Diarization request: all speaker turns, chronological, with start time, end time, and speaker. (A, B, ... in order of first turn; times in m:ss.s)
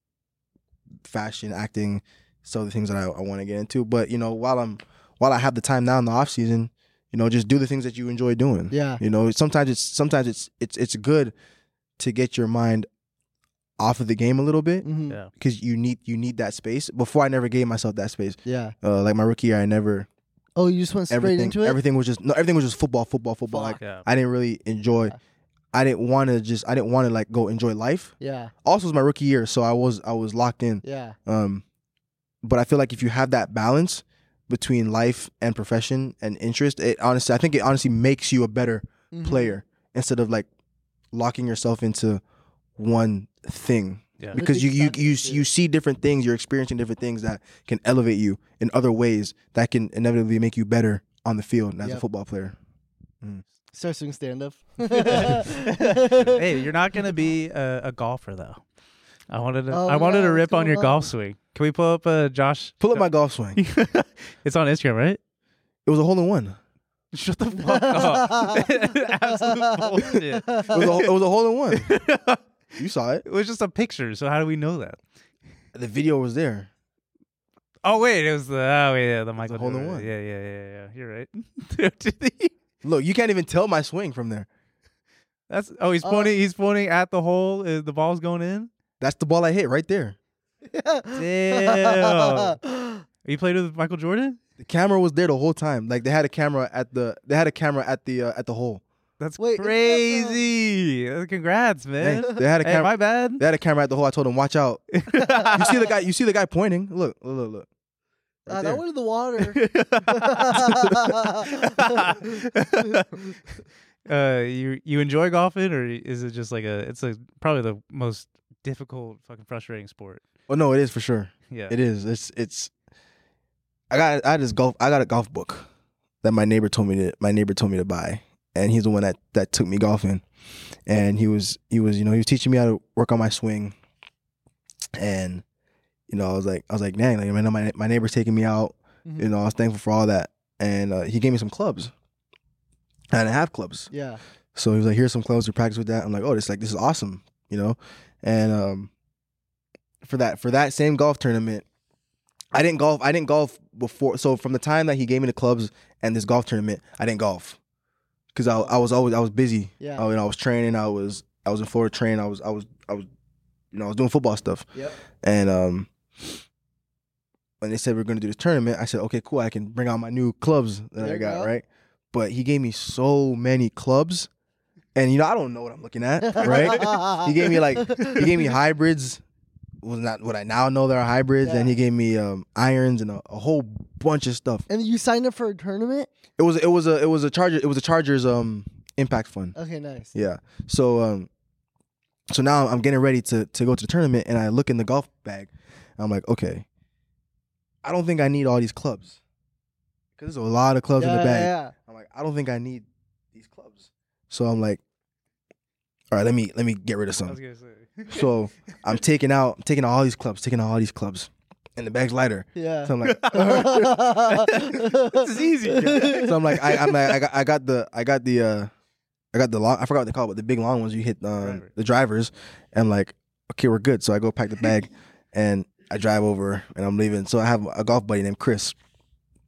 0:01.0-0:11.3 A
0:08.7-0:09.0 B
0:12.0-0:12.9 A
0:13.8-0:20.1 A
0:14.8-0:15.2 B
0:18.4-0:18.7 B
0:20.6-0:21.8 B
0:21.1-0:25.2 A
0:23.5-0:23.8 B
0:23.8-0:24.1 C
0:25.7-0:31.6 A
0:28.2-0:28.5 B
0:30.8-0:31.2 B
0:32.4-0:40.5 A
0:39.1-0:39.6 B
0:41.1-0:42.2 A
0:42.8-0:52.6 A
0:44.3-0:45.4 B
0:53.7-0:56.4 B
0:54.9-0:58.6 C
0:59.3-1:03.0 C
0:59.7-1:00.9 B
1:02.8-1:03.6 A
1:03.6-1:05.2 C
1:05.8-1:06.6 A
1:07.1-1:11.1 C
1:07.6-1:08.7 B
1:09.3-1:10.8 B
1:10.7-1:12.0 A
1:11.7-1:12.4 C
1:12.8-1:13.2 A
1:13.2-1:15.0 C
1:15.7-1:16.7 A
1:17.8-1:22.5 C
1:19.4-1:20.1 A
1:22.8-1:24.5 A
1:25.5-1:28.7 C
1:26.0-1:26.3 B
1:29.0-1:30.2 A
1:30.7-1:33.0 B
1:31.1-1:32.6 C
1:33.3-1:34.4 C
1:34.6-1:38.8 A
1:39.2-1:43.4 C
1:39.4-1:40.4 B
1:42.0-1:44.9 A
1:44.9-1:45.9 C
1:45.1-1:45.7 B
1:45.5-1:47.7 A
1:48.4-1:48.8 A
1:48.5-1:53.0 B
1:49.4-1:50.7 C
1:51.4-1:53.2 C
1:54.1-2:00.2 C
2:00.5-2:02.7 A
2:01.5-2:01.8 C
2:03.9-2:05.7 A
2:06.2-2:10.2 A
2:10.9-2:13.7 A
2:15.0-2:15.4 A
2:16.1-2:21.9 A
2:23.1-2:23.9 A
2:23.9-2:24.2 B
2:24.6-2:28.9 A
2:30.0-2:31.6 A
2:32.5-2:37.6 A
2:38.3-2:43.1 A
2:39.8-2:40.1 B
2:43.7-2:44.7 A
2:45.2-2:46.4 A
2:47.6-2:54.3 A
2:51.0-2:51.5 B
2:55.0-2:59.2 A
2:56.2-2:58.5 B
2:59.8-3:04.7 A
3:01.4-3:01.8 B
3:04.7-3:06.1 B
3:06.4-3:09.6 A
3:09.6-3:10.1 B
3:10.1-3:11.3 A
3:12.3-3:16.6 A
3:17.8-3:19.2 A
3:20.2-3:24.8 A
3:21.0-3:21.7 B
3:26.1-3:27.4 A
3:27.3-3:28.9 C
3:28.1-3:34.0 A
3:32.6-3:36.3 B
3:33.1-3:37.2 C
3:35.8-3:38.7 A
3:39.3-3:48.8 A
3:41.4-3:41.7 C